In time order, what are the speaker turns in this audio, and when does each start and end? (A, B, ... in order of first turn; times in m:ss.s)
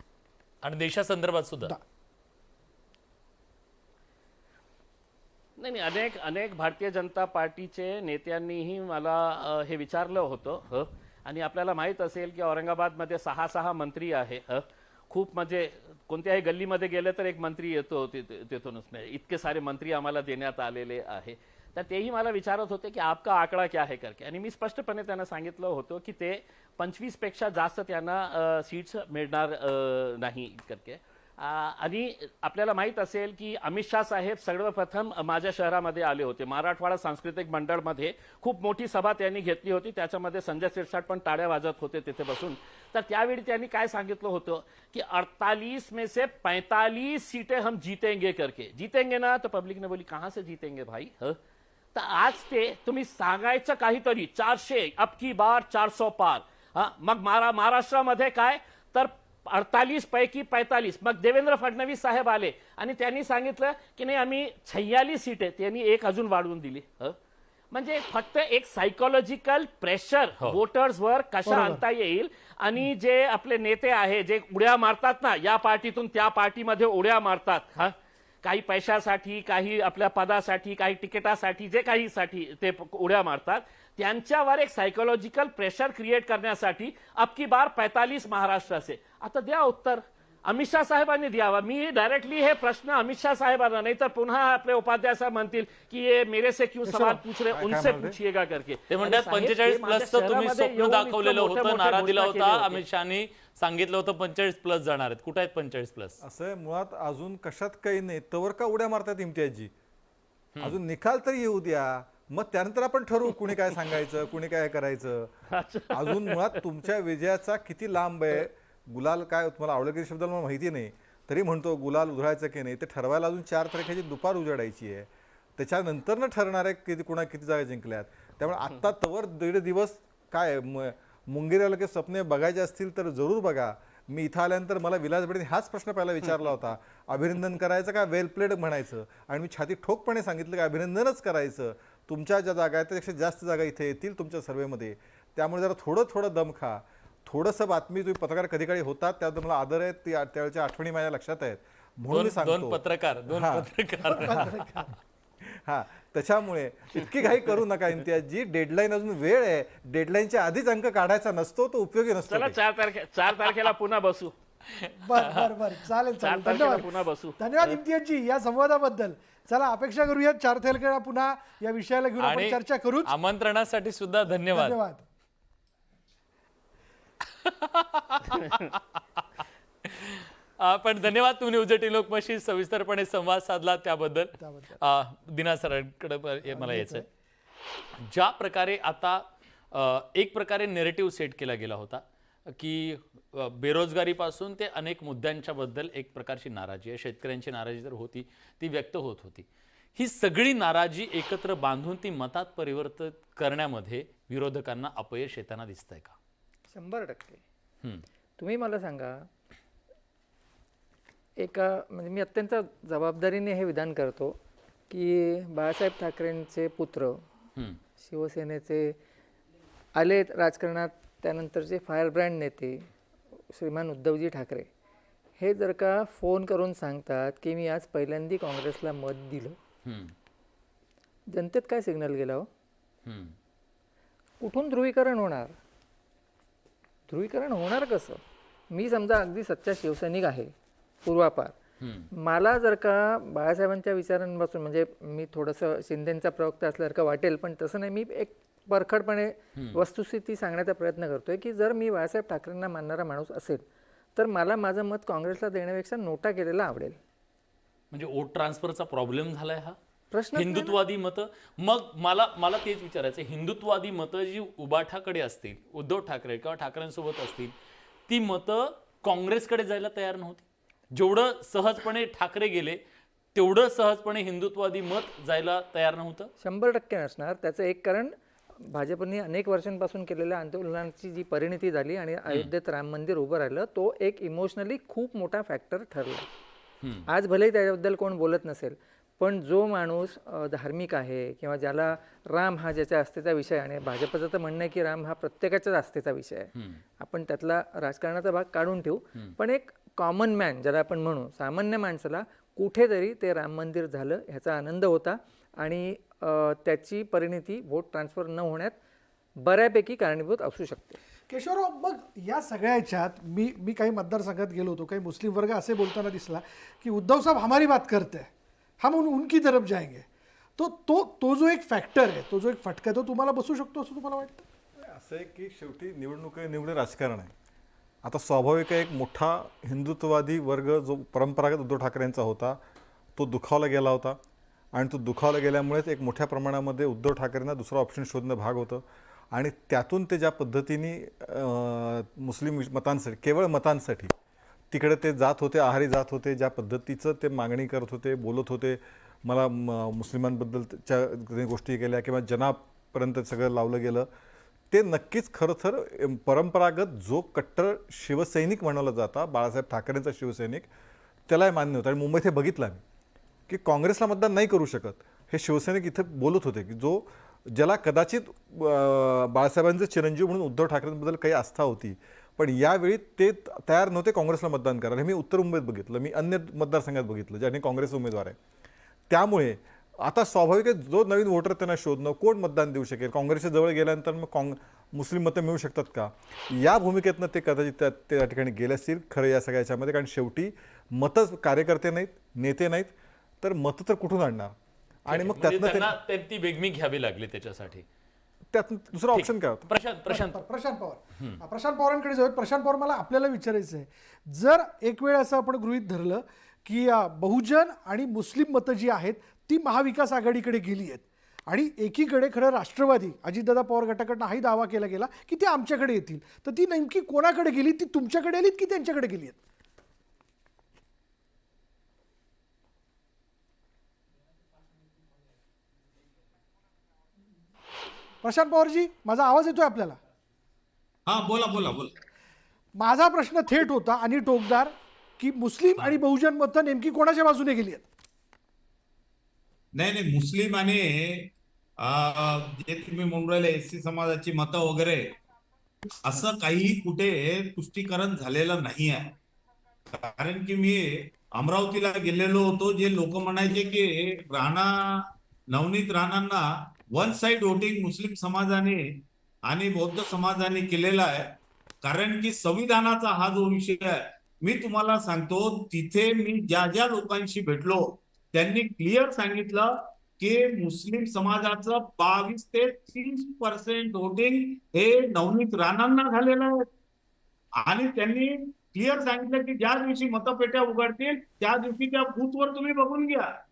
0:00.6-0:01.7 A
0:05.6-0:51.4 B
0:52.0-1:07.2 B
1:07.7-1:42.8 B
1:11.4-1:11.8 C
1:37.5-1:38.2 D
1:38.9-1:46.2 A
1:46.2-1:49.7 D
1:50.6-1:55.3 D
1:55.5-1:56.6 B
1:55.9-2:33.7 D
2:32.1-2:34.7 A
2:34.1-2:34.9 C
2:35.4-2:42.6 D
2:42.3-2:44.3 B
2:44.7-2:45.5 A
2:45.0-2:53.1 C
2:46.2-2:47.8 B
2:52.2-2:54.8 A
2:54.5-2:55.0 C
2:57.4-2:59.2 A
2:59.8-3:07.0 A
3:04.4-3:04.8 C
3:06.5-3:07.0 C
3:08.0-3:12.0 A
3:12.6-3:26.2 A
3:26.7-3:27.4 E
3:28.4-3:29.2 E
3:31.4-3:34.4 E
3:34.9-3:37.2 E
3:38.0-3:39.0 E
3:39.9-3:42.9 E
3:43.5-3:44.7 E
3:45.4-3:49.6 E
3:49.8-3:50.1 A
3:51.3-3:52.5 E
3:53.1-3:53.3 A
3:54.4-3:55.6 E
3:57.1-3:58.2 E
3:58.7-4:00.5 E
4:01.0-4:01.6 E
4:01.8-4:02.1 A
4:02.1-4:13.6 E
4:09.6-4:09.8 A
4:14.2-4:17.0 E
4:17.9-4:19.8 A
4:20.1-4:20.8 E
4:20.3-4:27.5 A
4:28.1-4:32.8 A
4:33.4-4:36.3 A
4:36.4-4:38.1 E
4:38.6-4:46.2 E
4:47.1-5:08.8 E
5:09.4-5:11.0 E
5:11.3-5:24.4 C
5:24.8-5:27.3 D
5:28.0-5:32.6 D
5:33.2-5:34.2 D
5:34.7-5:44.1 D
5:44.7-5:54.1 D
5:54.7-6:00.6 D
6:01.3-6:02.8 D
6:03.5-6:18.4 D
6:19.1-6:34.6 D
6:35.1-6:35.9 D
6:35.1-6:37.8 A
6:38.5-6:39.7 D
6:39.1-6:40.4 A
6:40.1-6:59.4 C
7:08.2-7:10.0 C
7:11.1-7:12.0 F
7:12.8-7:17.9 C
7:19.7-7:25.2 F
7:26.0-7:29.1 F
7:29.9-7:56.6 F
7:57.6-8:03.3 F